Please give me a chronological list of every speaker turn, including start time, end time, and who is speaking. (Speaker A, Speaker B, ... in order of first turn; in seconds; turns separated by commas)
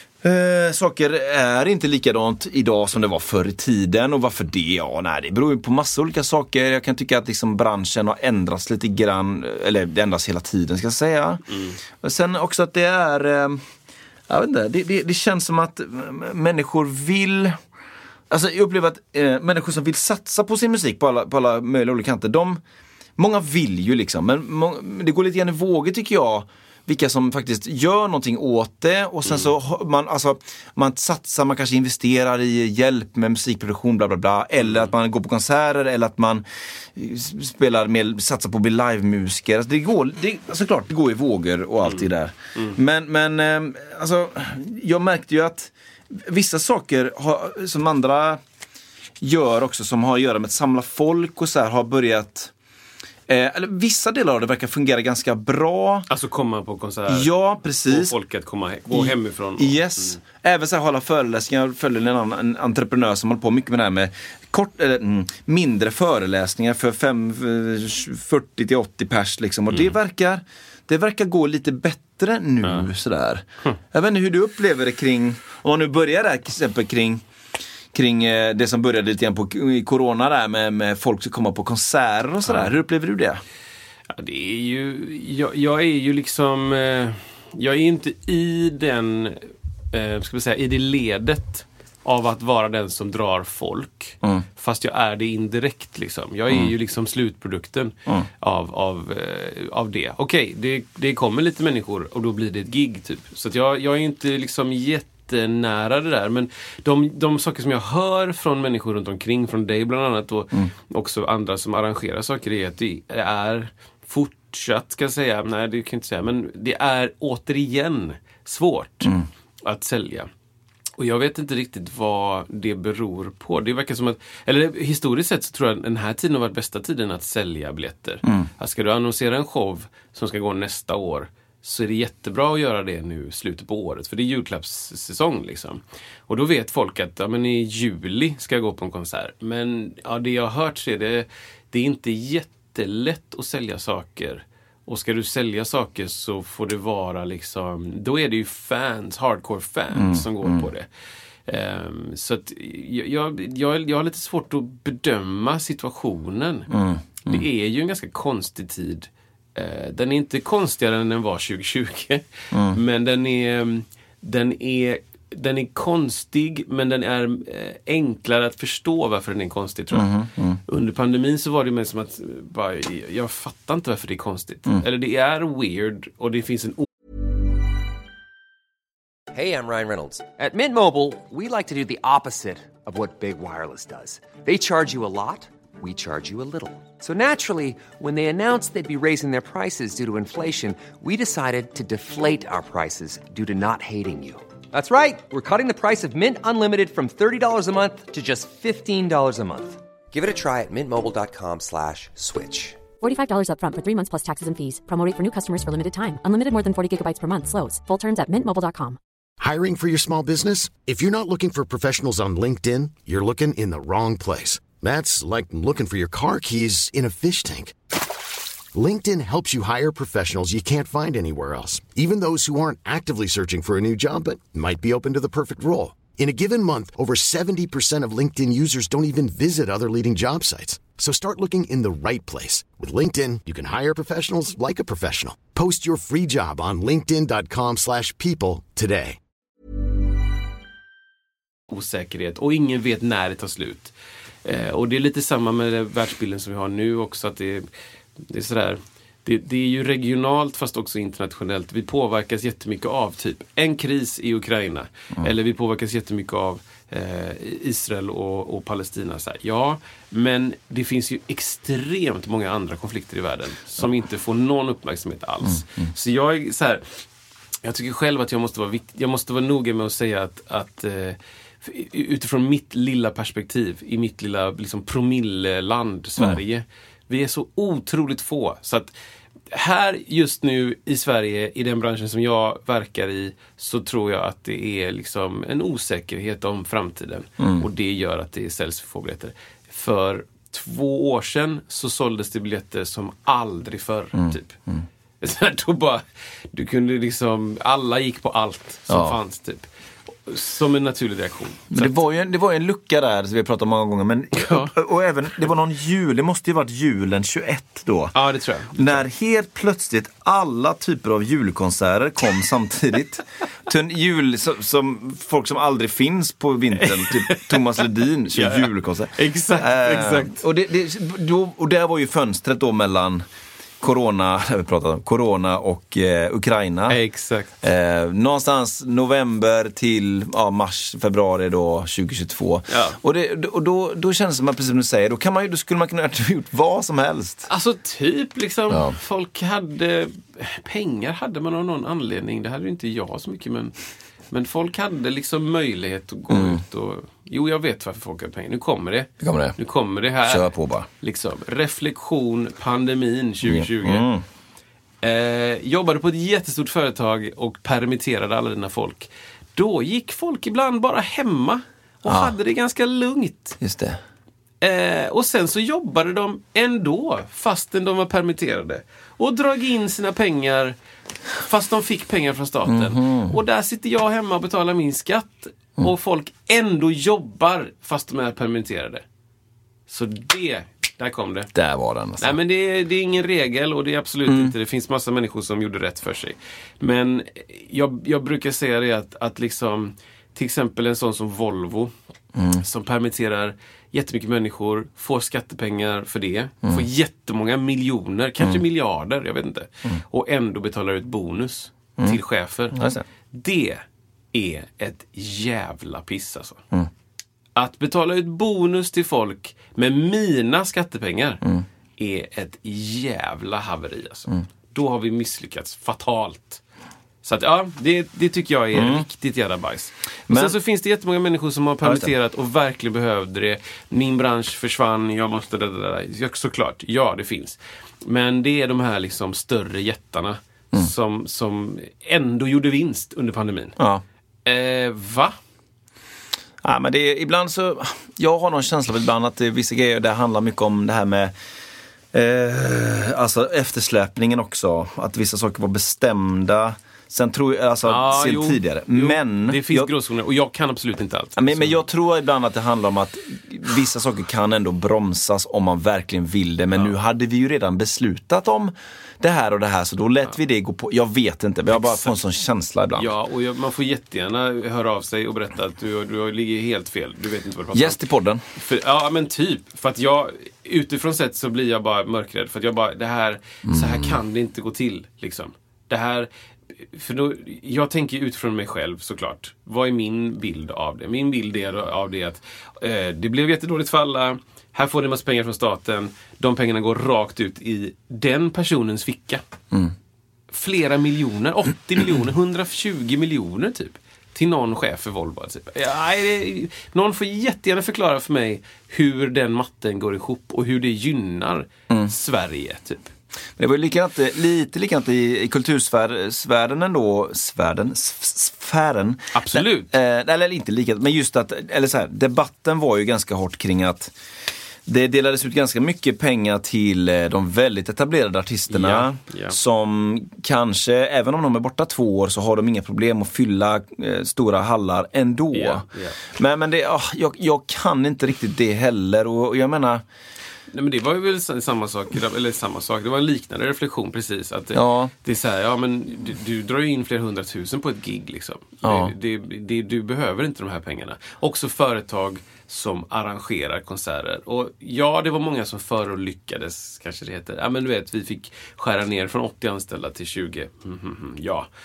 Speaker A: 0.2-13.7, Speaker B: 11.5-11.8, Speaker A: 14.3-17.6, Speaker A: 18.3-22.6, Speaker A: 23.2-48.4, Speaker B: 34.6-34.9, Speaker B: 41.8-42.8, Speaker A: 49.2-52.5, Speaker A: 53.3-56.1, Speaker B: 56.1-60.2, Speaker A: 57.1-58.1, Speaker A: 58.9-77.2, Speaker B: 69.7-70.0, Speaker B: 72.6-72.9, Speaker A: 77.9-83.4, Speaker B: 82.5-82.7, Speaker B: 84.1-120.3, Speaker B: 121.0-150.9, Speaker A: 149.9-150.7, Speaker B: 151.5-156.7, Speaker A: 156.7-157.4, Speaker B: 157.2-170.2, Speaker A: 162.5-162.8, Speaker A: 169.9-170.6, Speaker B: 170.7-176.9, Speaker C: 179.3-202.8, Speaker D: 203.0-209.0, Speaker E: 209.4-217.8, Speaker E: 218.7-239.2, Speaker B: 241.7-243.9, Speaker B: 244.4-247.7, Speaker B: 248.2-267.0, Speaker A: 265.4-265.9, Speaker B: 267.6-278.9, Speaker B: 279.5-294.6, Speaker A: 287.4-287.7, Speaker A: 294.1-294.8, Speaker B: 295.2-302.0, Speaker A: 298.9-299.2, Speaker A: 301.7-308.1, Speaker B: 304.3-304.8, Speaker B: 308.1-309.1, Speaker A: 308.7-323.2, Speaker B: 316.8-320.4, Speaker A: 323.8-327.0, Speaker B: 326.9-327.5, Speaker A: 327.6-337.5, Speaker B: 332.7-333.0, Speaker B: 337.5-343.8, Speaker A: 338.7-339.0, Speaker B: 344.3-354.1, Speaker A: 346.3-346.6, Speaker A: 349.2-349.6, Speaker A: 350.2-350.9, Speaker A: 353.4-354.2, Speaker B: 355.0-363.6, Speaker A: 362.1-362.3, Speaker A: 363.6-364.0, Speaker B: 364.6-370.8, Speaker B: 371.4-379.1, Speaker A: 372.7-373.4, Speaker B: 379.9-381.5, Speaker A: 381.5-382.4, Speaker B: 382.2-391.9, Speaker A: 384.3-384.5, Speaker A: 392.4-392.6, Speaker B: 392.5-406.6, Speaker A: 402.7-403.0, Speaker B: 407.6-411.4, Speaker B: 412.0-416.6, Speaker B: 417.2-433.8, Speaker A: 418.7-419.1, Speaker A: 420.3-420.6, Speaker A: 421.8-422.1, Speaker A: 433.8-434.0, Speaker B: 434.4-435.4, Speaker A: 436.6-441.3, Speaker A: 442.1-449.9, Speaker B: 447.8-451.8, Speaker A: 451.4-463.1, Speaker B: 461.7-462.1, Speaker B: 463.0-468.0, Speaker A: 467.7-468.4, Speaker B: 468.5-489.4, Speaker A: 473.7-474.2, Speaker B: 490.5-503.1, Speaker A: 503.6-514.1, Speaker B: 509.3-509.9, Speaker A: 514.9-530.0, Speaker B: 518.7-519.6, Speaker B: 525.5-526.2, Speaker B: 530.7-551.7, Speaker A: 534.7-535.1, Speaker A: 538.8-539.1